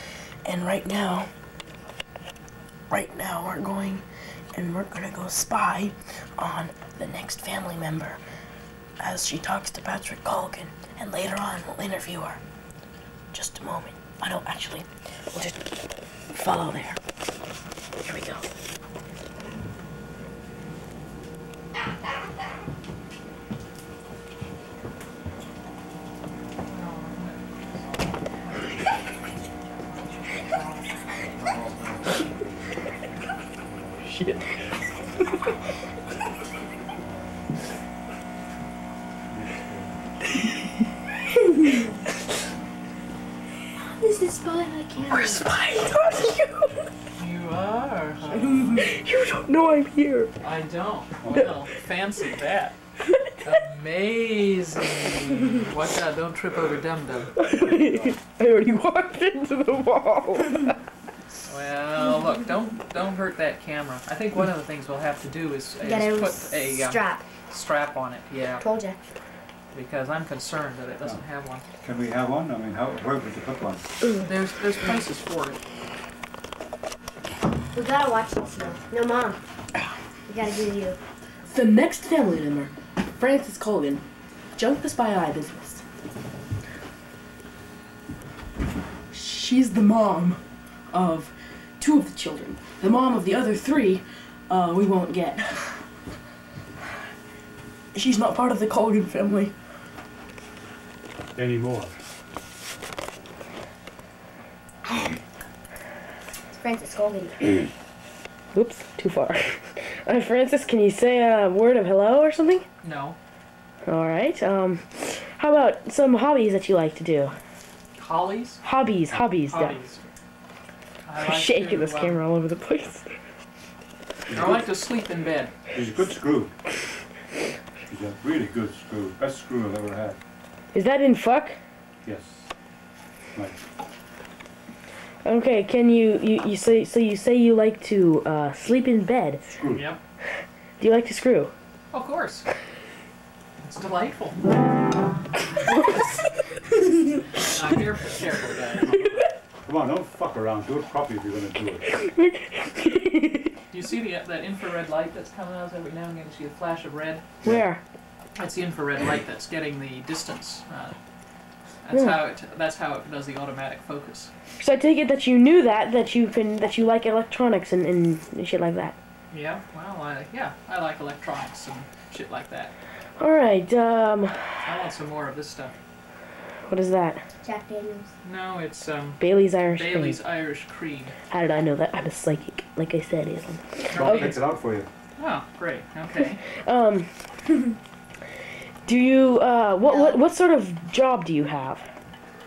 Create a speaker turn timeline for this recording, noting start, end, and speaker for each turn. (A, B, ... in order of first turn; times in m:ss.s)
0:00.4-0:01.3 A
0:02.9-0:08.2 A
0:09.0-0:12.4 A
0:13.3-0:15.6 A
0:16.3-0:17.0 A
0:18.0-0:18.5 A
0:26.7-0:28.8 B
0:29.8-0:31.3 B
0:31.4-0:32.5 C
0:33.7-0:34.2 C
0:37.0-0:37.4 C
0:39.3-0:40.0 C
0:43.8-0:45.5 D
0:45.1-0:46.9 A
0:47.2-0:48.9 B
0:48.3-0:50.3 A
0:50.4-0:52.8 B
0:53.4-0:57.3 B
0:57.4-1:00.8 A
0:57.5-0:58.2 C
1:01.5-1:08.6 B
1:05.8-1:07.2 D
1:08.6-1:09.0 D
1:09.7-1:11.6 B
1:11.8-1:13.8 C
1:14.2-1:15.6 B
1:17.7-1:19.4 D
1:20.3-1:21.0 D
1:21.5-1:24.0 A
1:24.6-1:25.8 A
1:29.1-1:30.4 A
1:30.9-1:35.8 A
1:37.9-1:39.5 A
1:41.4-1:42.0 C
1:46.5-1:47.7 D
1:48.5-1:52.6 A
1:52.8-1:53.2 B
1:53.9-1:57.3 A
1:58.0-1:58.6 B
1:58.6-1:59.8 A
1:59.5-2:00.1 B
2:01.0-2:02.2 B
2:01.2-2:03.1 A
2:04.3-2:04.7 C
2:04.3-2:05.5 B
2:05.7-2:06.5 C
2:07.9-2:10.2 C
2:10.7-2:11.6 A
2:12.0-2:12.5 C
2:15.2-2:19.5 A
2:19.5-2:19.9 C
2:19.7-2:20.0 B
2:20.8-2:21.5 A
2:21.9-2:22.5 B
2:23.6-2:24.4 B
2:25.7-2:26.0 A
2:27.4-2:29.2 B
2:29.6-2:31.8 C
2:31.9-2:33.5 A
2:33.7-2:37.2 B
2:37.4-2:37.8 A
2:38.4-2:41.0 B
2:41.8-2:44.3 B
2:41.9-2:42.2 A
2:44.6-2:49.0 A
2:49.3-2:52.7 B
2:53.2-2:54.7 A
2:54.6-2:55.7 B
2:56.7-2:57.2 A
2:57.4-2:58.1 D
2:58.2-3:01.2 B
2:59.2-3:00.2 A
3:01.3-3:04.4 A
3:03.9-3:04.4 B
3:03.9-3:04.9 C
3:05.2-3:06.4 B
3:06.6-3:07.1 A
3:08.8-3:11.8 A
3:09.8-3:10.2 D